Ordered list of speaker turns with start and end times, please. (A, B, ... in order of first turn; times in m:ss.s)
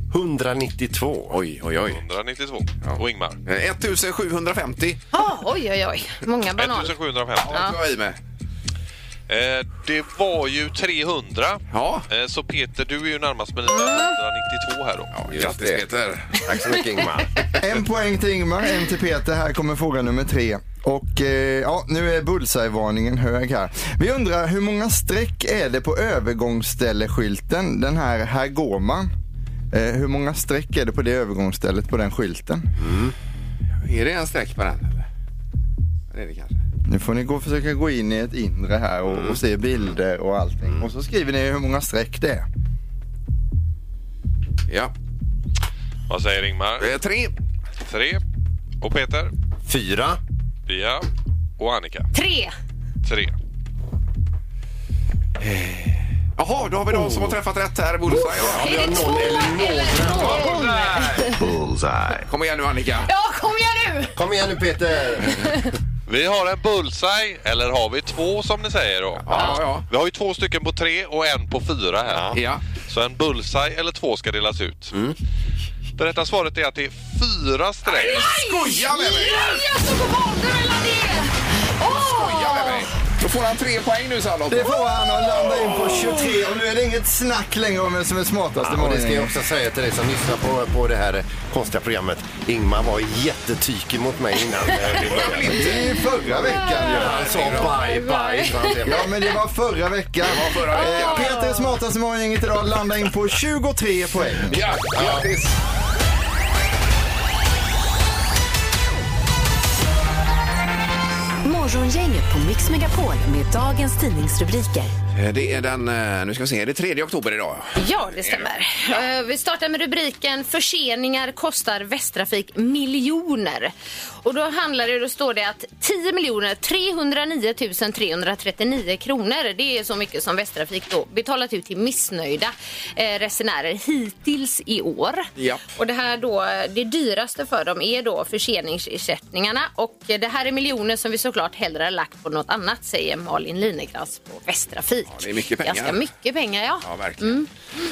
0:00.1-0:01.4 A
0:01.3-0:02.0 B
0:01.9-0:03.4 C
0:02.8-0:05.0 B
0:05.1-0:06.9 D
0:06.6-0:07.7 C
0:07.4-0:08.2 B
0:09.3-0:15.1 C
0:11.7-0:12.1 B
0:13.7-0:14.2 D
0:15.1-0:16.4 B
0:15.3-0:15.8 A
0:16.4-0:17.5 A
0:17.6-0:29.1 E
0:29.7-0:32.7 E
0:32.8-0:33.1 A
0:33.8-0:35.0 B
0:36.1-0:36.5 B
0:36.9-0:42.5 E
0:46.1-0:46.9 C
0:46.8-0:47.3 B
0:47.9-0:48.2 C
0:48.8-0:49.3 C
0:49.6-0:50.2 A
0:50.7-0:51.1 C
0:51.6-0:52.1 C
0:52.1-0:52.5 D
0:53.0-0:53.4 C
0:55.4-0:59.1 B
0:56.9-0:57.4 A
0:58.1-1:02.2 A
0:58.5-1:01.4 D
1:02.2-1:03.1 B
1:03.1-1:04.2 D
1:04.2-1:05.6 A
1:05.3-1:05.6 D
1:06.1-1:12.4 C
1:09.2-1:09.9 B
1:12.3-1:12.6 B
1:12.9-1:15.0 C
1:16.0-1:18.3 C
1:17.9-1:22.9 D
1:17.9-1:19.6 B
1:21.8-1:24.8 B
1:24.5-1:29.3 E
1:28.6-1:35.6 A
1:34.8-1:36.1 B
1:35.4-1:37.6 E
1:36.3-1:39.1 A
1:36.5-1:38.8 D
1:36.9-1:37.8 B
1:38.8-1:44.6 E
1:40.2-1:41.3 B
1:40.7-1:41.8 D
1:44.5-1:45.6 B
1:45.0-1:45.3 A
1:51.4-1:54.9 F
1:55.1-1:59.0 B
1:57.8-2:27.5 D
2:15.4-2:15.6 B
2:25.1-2:26.0 B
2:26.8-2:27.5 B